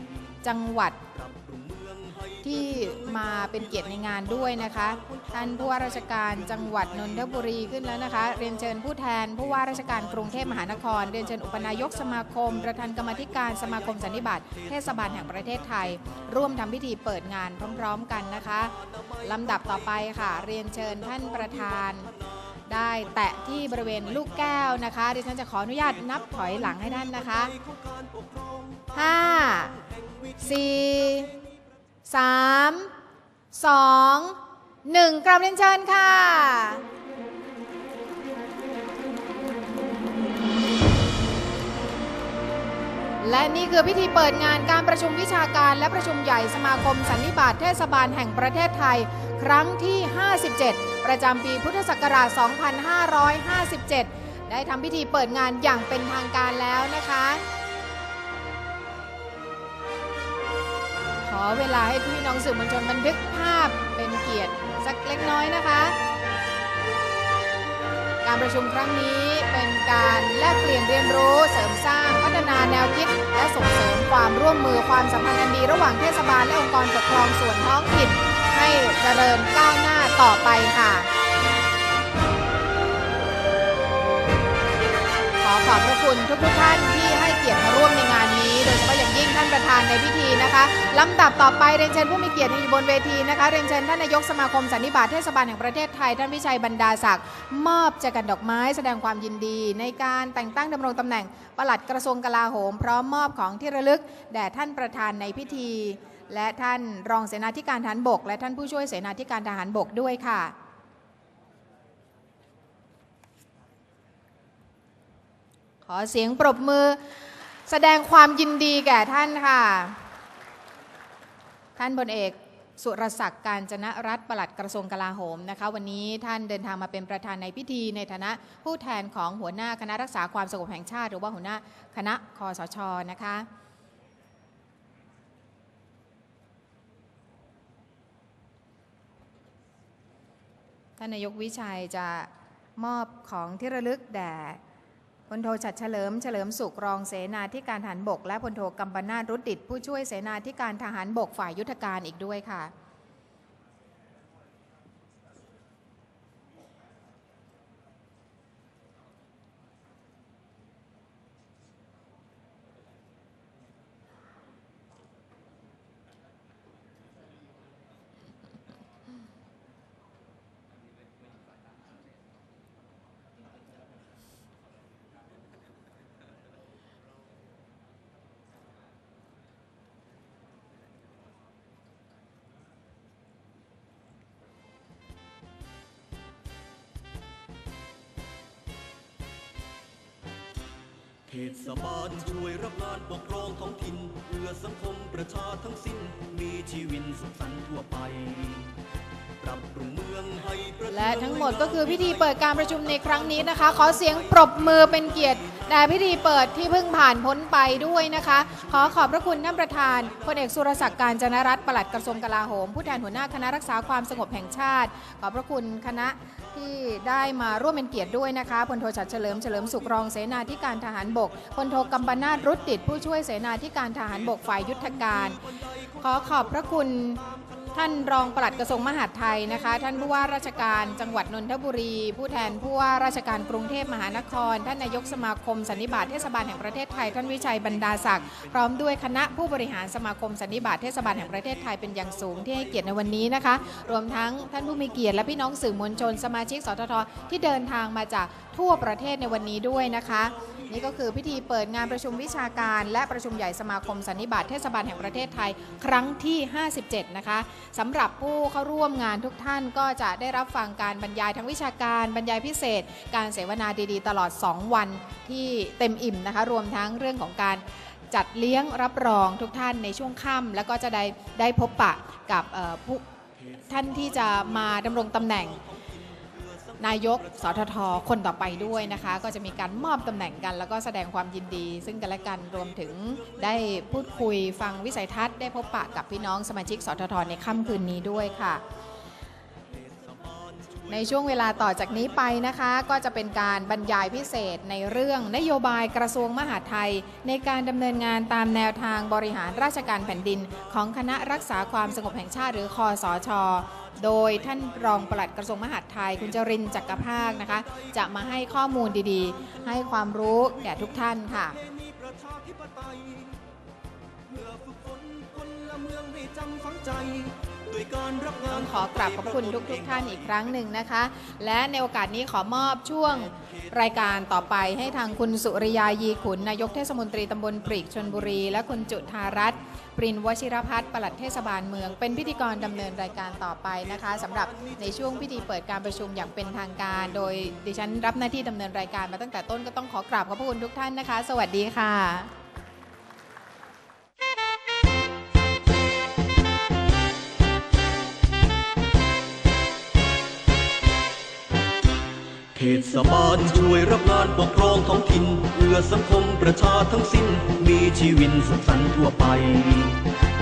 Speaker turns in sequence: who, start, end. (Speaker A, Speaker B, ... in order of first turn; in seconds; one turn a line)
Speaker A: 0.4-1.0
Speaker B: 1.1-2.4
Speaker A: 2.4-22.1
Speaker A: 22.7-27.5
Speaker B: 27.6-28.9
Speaker A: 28.9-29.8
Speaker A: 30.4-31.3
Speaker A: 32.1-32.9
Speaker A: 33.5-36.8
Speaker A: 43.2-57.4
Speaker A: 61.2-66.0
Speaker A: 68.2-81.1
Speaker A: 85.4-110.5
Speaker A: 115.8-117.0
Speaker A: 117.7-120.0
Speaker A: 121.8-133.5
Speaker A: 141.0-144.6
Speaker A: 145.3-152.7
Speaker B: 191.3-198.7
Speaker B: 199.4-200.9
Speaker A: 200.9-273.0
Speaker A: 273.7-275.6
Speaker B: 276.4-276.8
Speaker A: 276.8-288.6
Speaker B: 289.9-290.8
Speaker A: 290.9-311.6
Speaker B: 311.7-313.4
Speaker B: 314.3-318.7
Speaker A: 318.5-342.3
Speaker B: 352.5-360.0